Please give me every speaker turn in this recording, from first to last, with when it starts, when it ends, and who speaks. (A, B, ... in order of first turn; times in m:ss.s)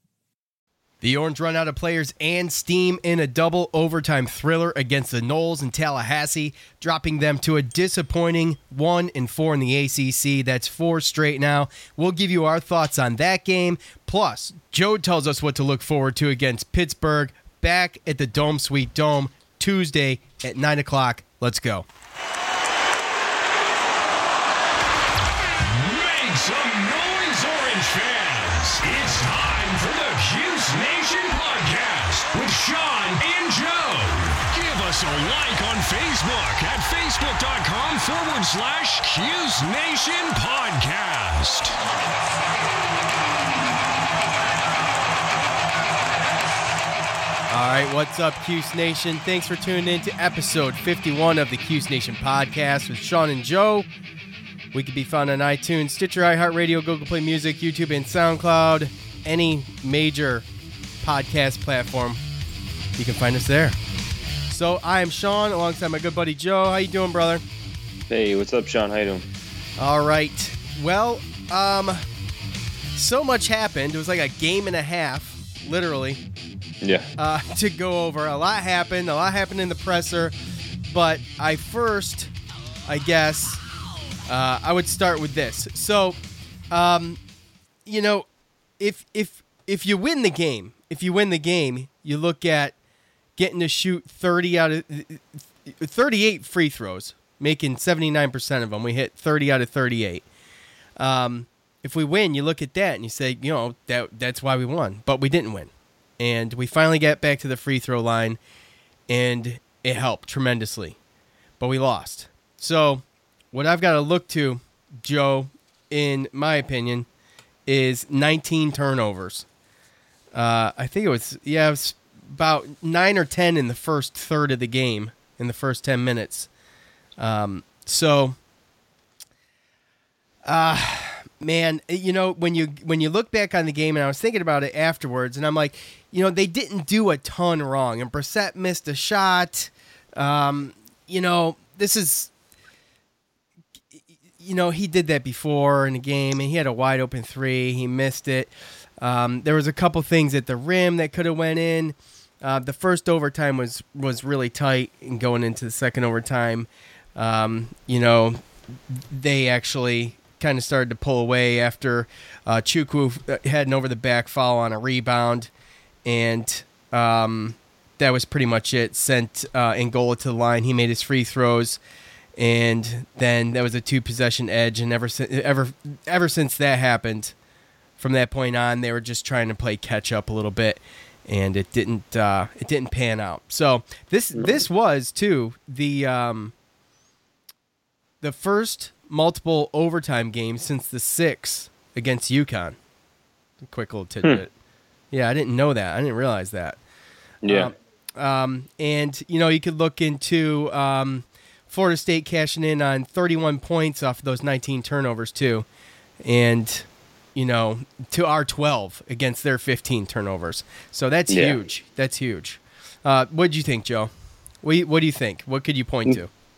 0:01.0-0:21.9 A
0:25.6-0:41.8 B
0:47.5-0:53.9 A
0:54.7-1:00.4 A
1:01.0-1:02.2 A
1:03.0-1:03.8 A
1:04.5-1:07.4 A
1:08.1-1:09.3 C
1:09.8-1:12.0 A
1:13.0-1:16.2 A
1:16.8-1:17.1 C
1:17.2-1:20.3 A
1:20.9-1:22.3 A
1:22.9-1:23.6 A
1:24.3-1:26.2 A
1:26.7-1:27.2 A
1:27.9-1:28.3 A
1:28.8-1:32.8 A
1:33.4-1:40.2 A
1:41.0-1:48.4 A
1:49.1-1:51.0 A
1:51.6-1:57.1 A
1:57.7-1:59.5 A
2:00.3-2:06.5 A
2:07.2-2:08.4 A
2:10.5-2:22.3 A
2:24.4-2:38.4 A
2:38.9-2:45.5 A
2:46.0-2:51.8 A
2:52.4-2:57.3 A
2:58.0-3:06.5 A
3:08.2-3:12.8 A
3:13.6-3:14.5 A
3:15.1-3:16.8 A
3:17.4-3:17.7 C
3:17.5-3:25.7 A
3:26.2-3:34.1 A
3:31.3-3:31.6 C
3:34.6-3:36.3 A